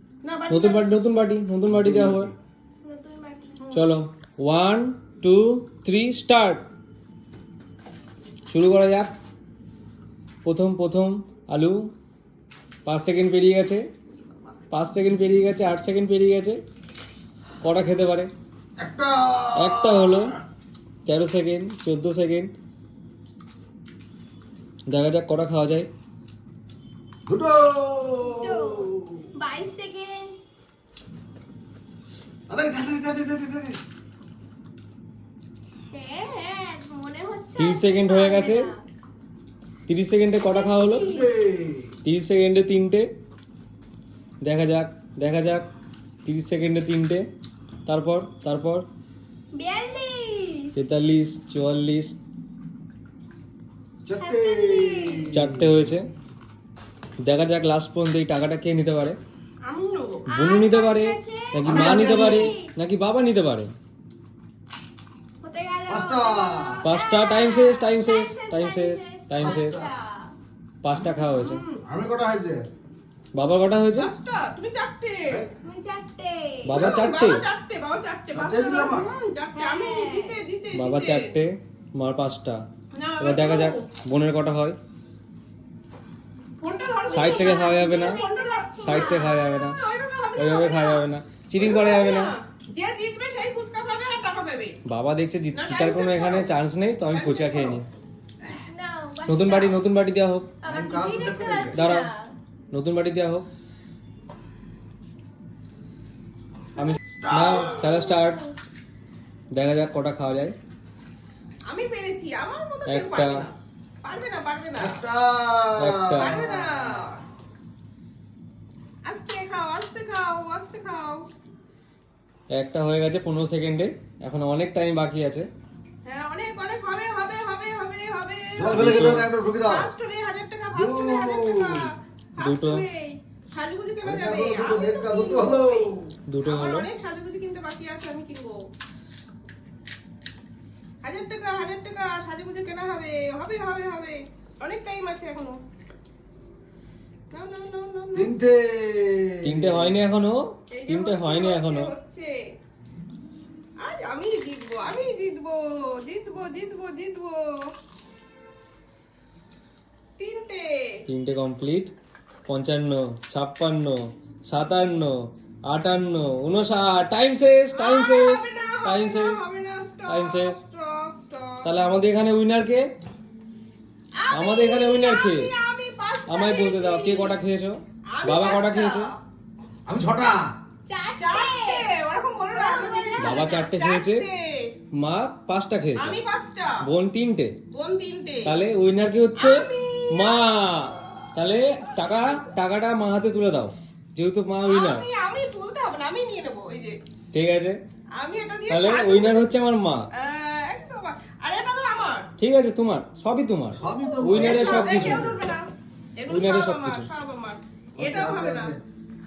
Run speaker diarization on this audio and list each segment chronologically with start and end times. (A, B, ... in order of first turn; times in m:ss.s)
0:00.2-0:00.9 A
0:00.5-0:02.3 B
0:01.7-0:02.3 C
0:02.8-0:03.6 D
0:03.6-0:03.9 A
0:03.7-0:06.6 B
0:08.5-0:09.1 B
0:10.4-0:11.8 B
0:12.8-0:13.8 B
0:14.7-0:16.6 B
0:17.6-0:18.3 B
0:18.8-0:20.3 C
0:19.6-0:20.3 B
0:21.0-0:22.5 B
0:24.9-0:25.9 B
0:27.2-0:29.2 C
0:28.2-0:30.4 D
0:32.5-0:33.8 C
0:35.9-0:38.8 D
0:37.6-0:38.7 B
0:39.9-0:41.1 B
0:40.4-0:41.3 D
0:40.9-0:41.9 C
0:42.0-0:43.1 B
0:44.4-0:45.6 B
0:46.2-0:47.2 B
0:47.8-0:48.8 B
0:49.5-0:50.7 D
0:50.8-0:52.1 B
0:54.0-0:55.9 C
0:54.2-0:55.4 D
0:55.3-0:56.0 B
0:57.3-0:59.2 B
0:59.6-1:00.2 A
1:00.3-1:02.7 D
1:00.3-1:03.7 B
1:01.7-1:02.5 C
1:05.4-1:10.3 D
1:05.9-1:06.8 C
1:06.8-1:09.8 B
1:09.4-1:10.0 C
1:10.8-1:11.6 B
1:11.4-1:11.8 A
1:11.8-1:12.7 C
1:13.3-1:14.1 B
1:13.9-1:15.4 A
1:15.6-1:16.9 D
1:16.6-1:17.4 B
1:16.7-1:21.3 A
1:18.3-1:19.1 C
1:19.5-1:20.4 D
1:20.7-1:22.6 B
1:22.9-1:23.8 A
1:23.2-1:24.8 B
1:26.6-1:31.0 A
1:27.1-1:28.2 B
1:27.1-1:29.5 D
1:28.8-1:29.8 B
1:30.4-1:32.3 B
1:31.6-1:34.8 A
1:34.9-1:37.8 B
1:35.5-1:36.5 A
1:37.1-1:37.8 A
1:38.5-1:39.8 D
1:39.2-1:40.5 B
1:40.6-1:42.3 D
1:40.6-1:41.8 C
1:41.7-1:42.1 B
1:42.7-1:43.4 B
1:46.8-1:48.5 B
1:47.0-1:47.9 C
1:49.5-1:50.5 B
1:51.7-1:55.0 A
1:52.9-1:53.4 B
1:54.8-1:56.9 C
1:55.8-1:56.4 B
1:56.1-1:57.2 A
1:59.0-2:01.3 A
2:02.6-2:05.5 B
2:06.0-2:08.9 A
2:08.6-2:09.9 C
2:08.7-2:09.3 B
2:09.6-2:15.9 A
2:10.7-2:11.8 C
2:12.4-2:12.8 B
2:14.0-2:16.0 C
2:16.3-2:16.9 B
2:16.4-2:18.6 A
2:21.0-2:25.6 A
2:27.3-2:28.3 A
2:28.1-2:30.0 C
2:29.4-2:31.9 B
2:30.7-2:32.3 A
2:33.8-2:37.7 A
2:40.2-2:40.7 A
2:41.1-2:41.9 B
2:42.5-2:45.1 B
2:45.7-2:49.4 B
2:47.7-2:51.8 A
2:50.1-2:50.6 B
2:51.6-2:52.8 B
2:54.1-2:57.4 A
2:54.3-2:55.5 B
2:56.3-2:59.1 B
2:58.1-2:59.2 A
2:59.8-3:00.5 C
3:00.9-3:01.9 D
3:01.2-3:04.7 A
3:02.5-3:03.6 D
3:03.2-3:04.2 B
3:04.9-3:06.2 B
3:06.0-3:06.7 A
3:06.8-3:07.5 B
3:07.7-3:08.5 A
3:08.4-3:15.0 B
3:09.4-3:11.1 A
3:11.9-3:12.4 A
3:14.6-3:17.0 A
3:17.3-3:17.8 B
3:18.2-3:19.5 A
3:18.7-3:20.0 B
3:20.1-3:22.3 A
3:22.4-3:25.3 B
3:23.8-3:25.4 C
3:23.8-3:25.6 A
3:26.2-3:28.7 A
3:26.3-3:27.1 B
3:28.0-3:28.8 C